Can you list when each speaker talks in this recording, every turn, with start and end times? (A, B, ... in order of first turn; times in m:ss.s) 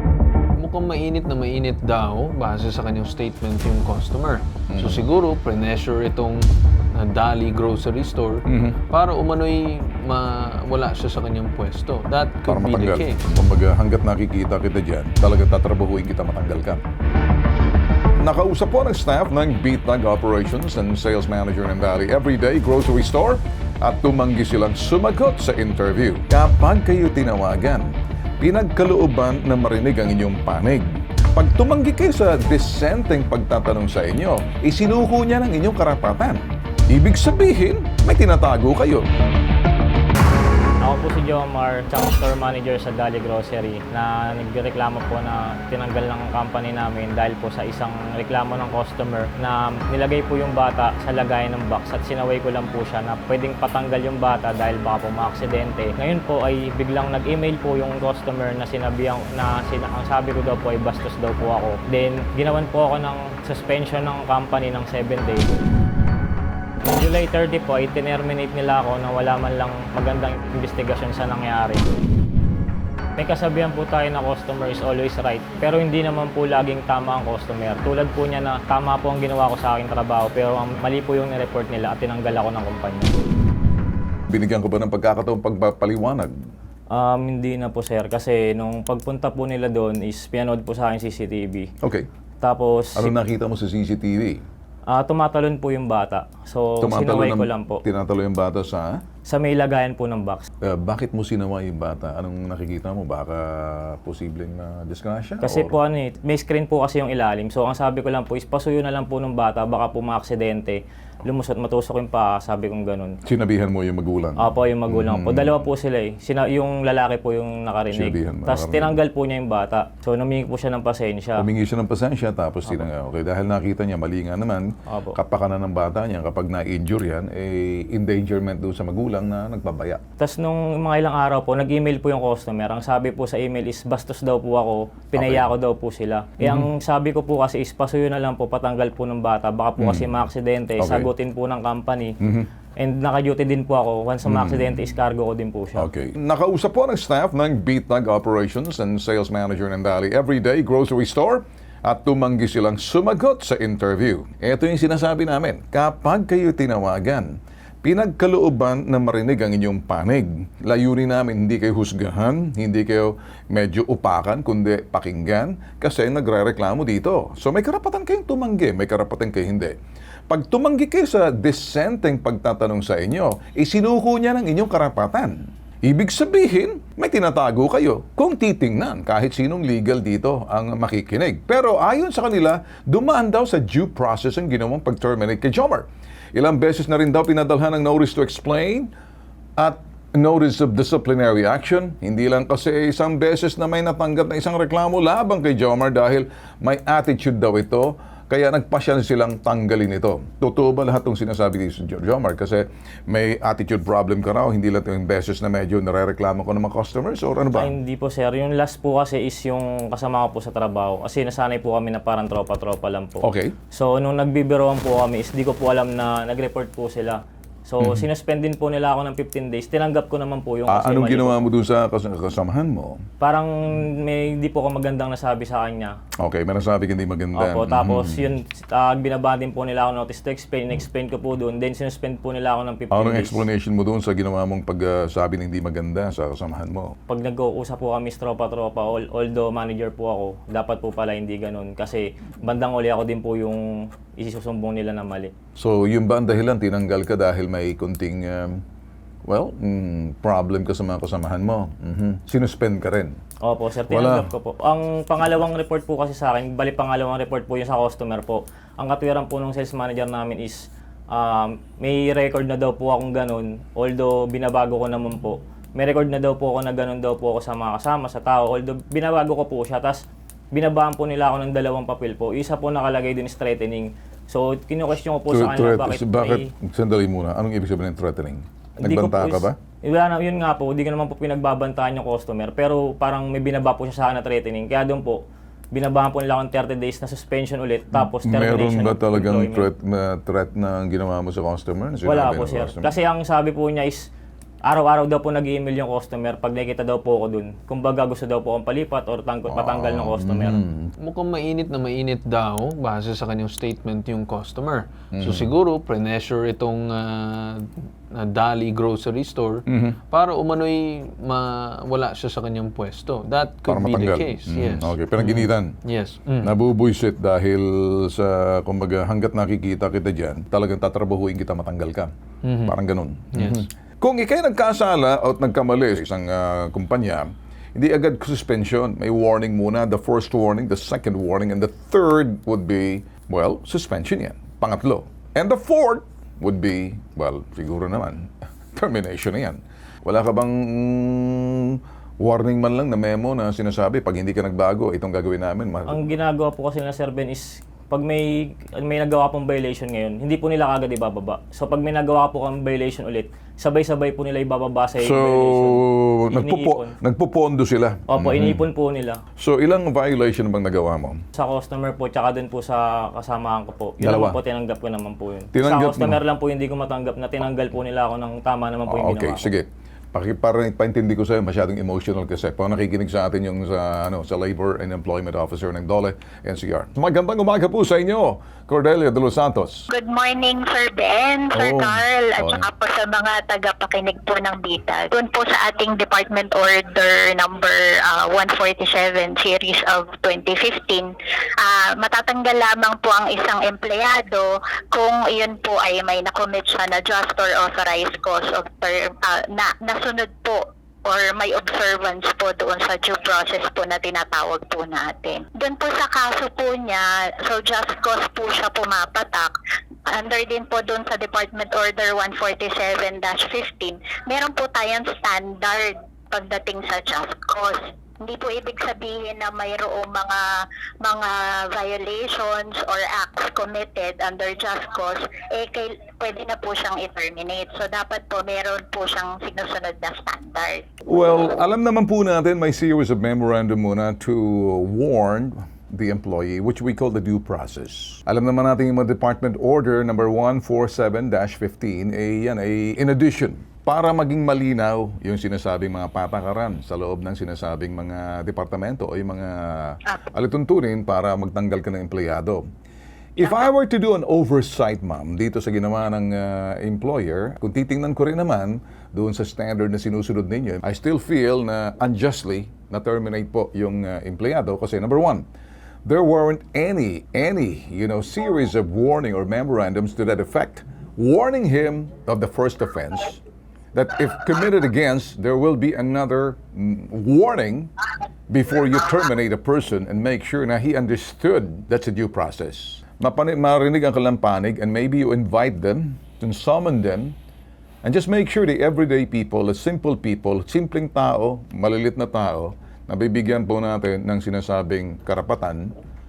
0:00.6-0:13.2 A
0:04.7-0:05.1 B
0:08.5-0:08.8 B
0:12.5-0:16.8 B
0:18.2-0:39.1 B
0:40.8-1:05.5 C
1:06.8-1:11.8 C
1:13.2-1:23.1 C
1:24.3-1:26.3 B
1:26.9-1:31.7 C
1:31.8-1:32.1 B
1:32.4-1:33.1 C
1:33.0-1:34.4 B
1:34.9-1:37.8 C
1:36.8-1:39.0 B
1:39.3-1:40.5 C
1:40.6-1:45.8 B
1:45.4-1:53.2 C
1:53.2-1:55.6 B
1:54.4-2:01.4 C
1:57.9-1:59.0 B
2:01.4-2:10.0 B
2:04.9-2:05.2 C
2:10.2-2:22.2 C
2:15.1-2:15.5 B
2:16.4-2:16.7 B
2:19.8-2:20.3 B
2:20.8-2:21.1 B
2:22.2-2:22.5 B
2:22.8-2:25.9 C
2:24.2-2:24.8 B
2:25.8-2:49.8 B
2:50.3-3:08.9 B
3:09.6-3:27.7 B
3:27.6-3:41.4 C
3:33.2-3:33.6 B
3:37.8-3:38.1 B
3:40.7-3:43.0 B
3:43.2-3:46.0 C
3:46.2-3:48.3 B
3:47.4-3:53.4 C
3:52.9-3:57.0 B
3:57.1-4:05.3 C
4:05.6-4:08.6 B
4:09.3-4:13.2 B
4:13.4-4:30.0 C
4:13.9-4:14.3 B
4:30.5-4:36.5 C
4:35.3-4:39.6 B
4:38.8-4:45.2 C
4:45.7-4:49.7 C
4:47.9-4:52.9 B
4:52.0-4:54.1 C
4:54.7-5:00.6 C
4:59.5-5:00.9 B
5:01.0-5:16.6 A
5:05.1-5:05.5 B
5:09.7-5:10.0 B
5:13.7-5:15.8 B
5:16.4-5:22.1 B
5:22.4-5:22.8 A
5:22.7-5:46.1 B
5:23.3-5:23.7 A
5:45.9-5:56.9 C
5:55.0-5:58.7 B
5:58.1-5:59.2 C
5:59.4-6:01.2 B
6:01.4-6:09.4 C
6:04.0-6:04.4 B
6:05.5-6:06.2 B
6:08.9-6:19.8 B
6:19.9-6:49.5 D
6:21.5-6:22.7 B
6:50.1-7:00.4 D
7:01.0-7:10.9 D
7:11.1-7:32.6 B
7:33.4-7:45.5 B
7:46.0-7:53.4 B
7:53.9-7:57.9 B
7:58.5-8:07.4 B
8:08.0-8:15.9 B